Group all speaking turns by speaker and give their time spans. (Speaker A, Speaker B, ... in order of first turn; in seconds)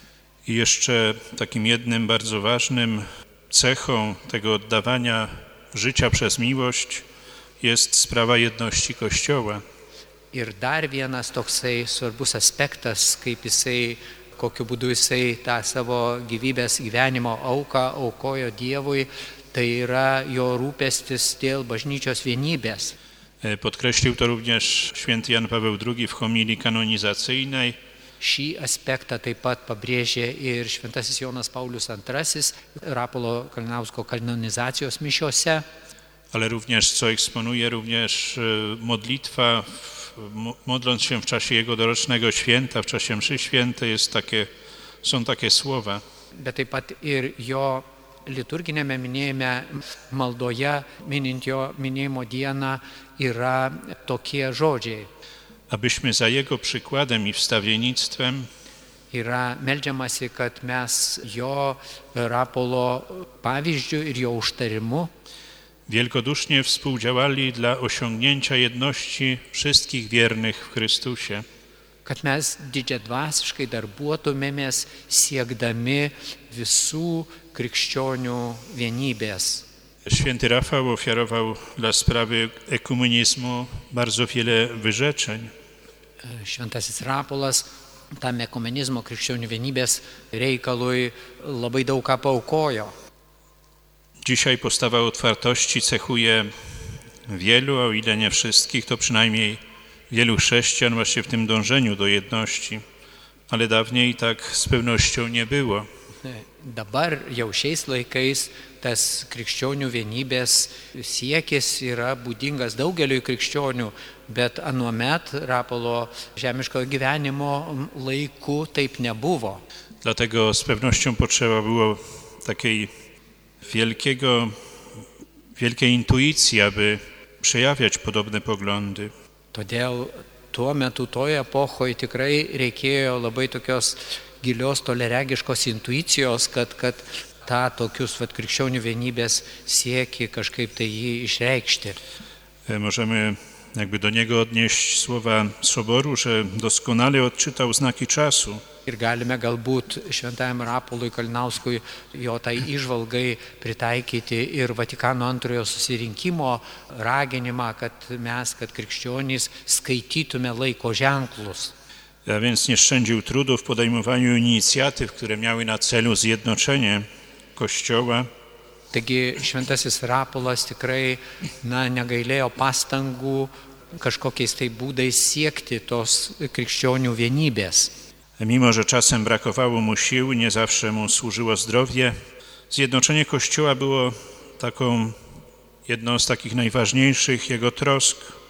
Speaker A: 0.5-7.0, 7.6-9.6, 23.4-27.8, 36.3-44.5, 45.0-46.0, 55.7-58.5, 65.9-71.4, 80.0-85.5, 94.2-102.8, 103.5-105.9, 120.0-122.9, 123.6-124.5, 125.5-129.1, 142.7-148.6, 162.2-168.3, 178.4-182.2, 182.7-185.2, 185.8-188.3
Speaker B: 10.3-22.9, 28.2-35.6, 46.4-55.1, 59.1-65.1, 72.0-79.7, 86.2-87.7, 88.2-92.9, 106.2-119.6, 129.5-142.0, 148.8-161.7, 168.9-177.9